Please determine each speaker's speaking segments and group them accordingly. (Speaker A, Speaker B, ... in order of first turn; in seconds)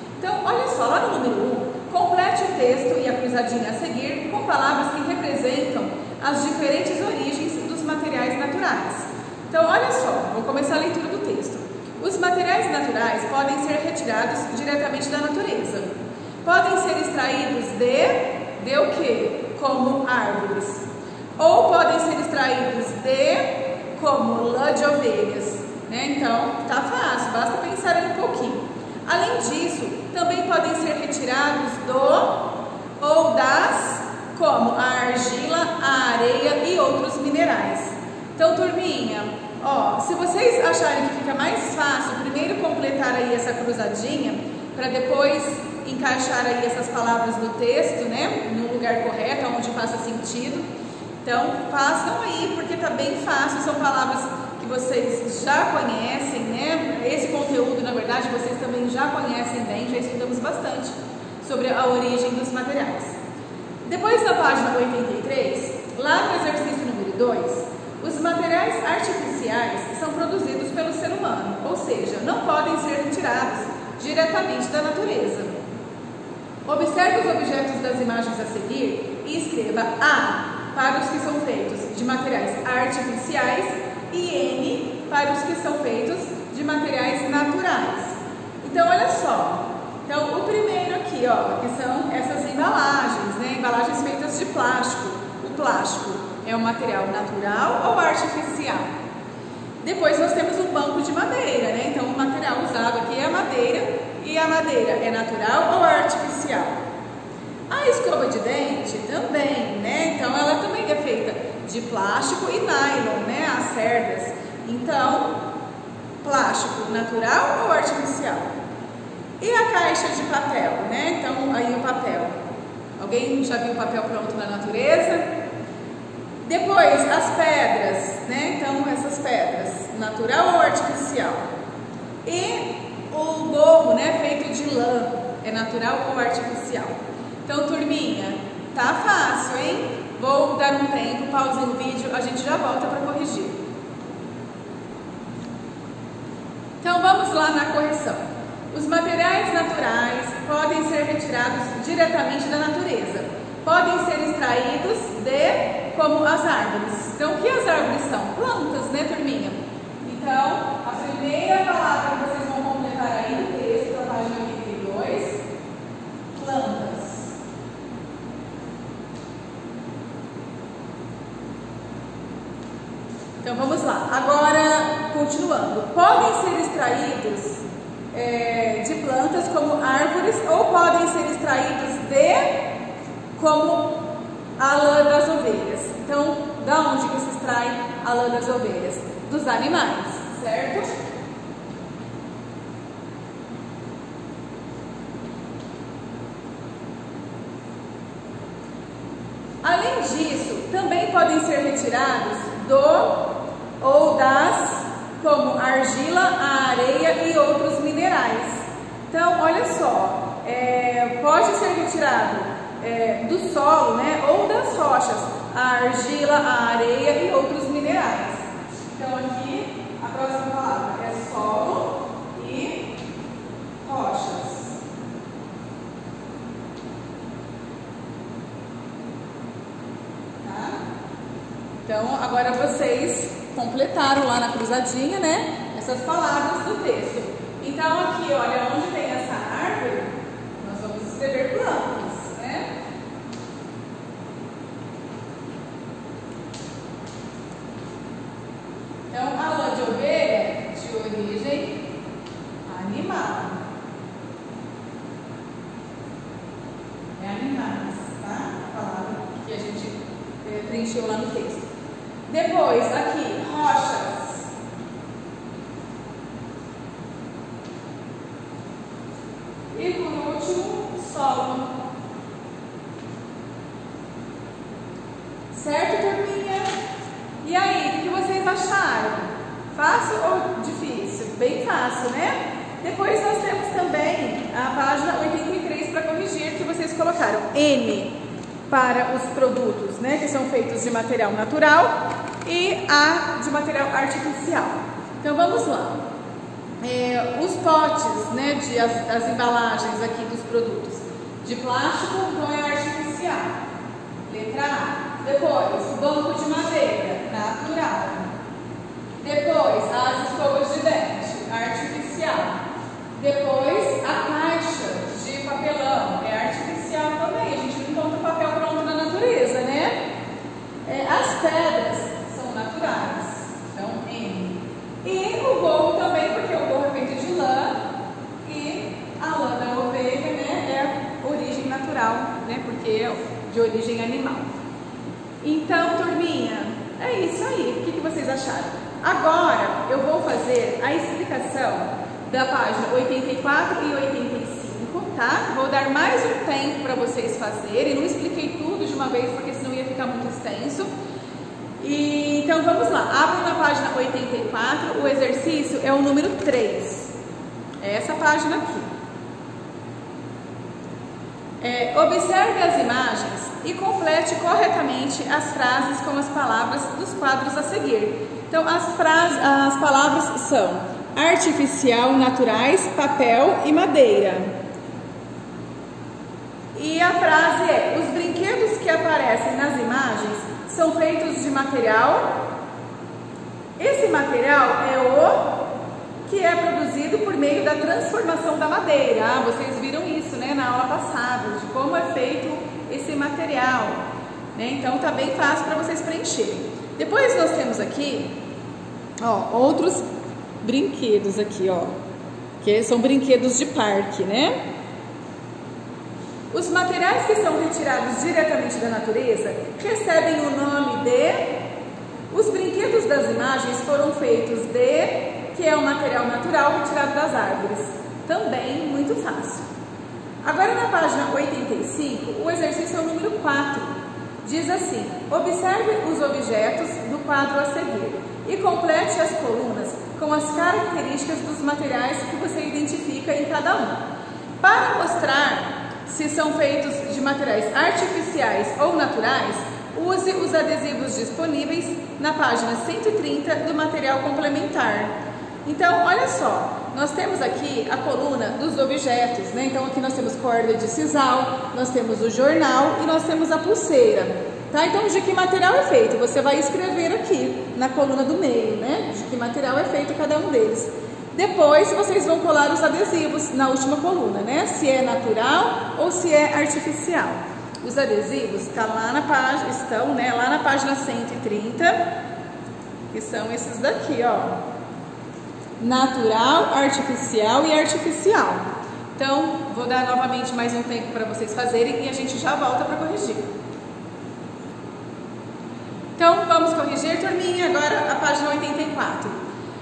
Speaker A: 0.2-20.8, 21.4-50.6, 51.2-63.1, 63.8-75.6, 76.7-98.9, 99.8-106.8, 107.7-115.4, 116.2-118.5, 119.4-122.3, 123.0-125.3, 126.4-131.5, 132.2-143.6, 146.8-165.4, 166.3-167.3, 173.4-182.7, 183.3-190.9, 199.6-222.9, 223.8-224.8, 230.4-230.8, 231.8-242.7, 249.1-251.8, 252.7-253.6, 257.2-261.6, 262.3-264.5, 269.7-271.7, 275.5-276.7, 277.4-288.1, 288.7-296.0, 296.8-303.5, 304.2-308.3, 309.2-312.6, 313.2-320.1, 320.8-327.8, 328.4-334.5, 335.4-350.9, 351.8-357.1, 357.8-358.9, 361.6-374.5, 376.7-382.4, 383.8-385.6, 386.2-398.4, 399.2-400.1, 400.6-401.9, 402.6-404.6, 406.5-411.6, 412.3-419.6, 420.4-423.9, 424.4-434.0, 434.6-445.1, 445.6-472.0, 473.1-474.6, 475.8-483.5, 486.2-489.4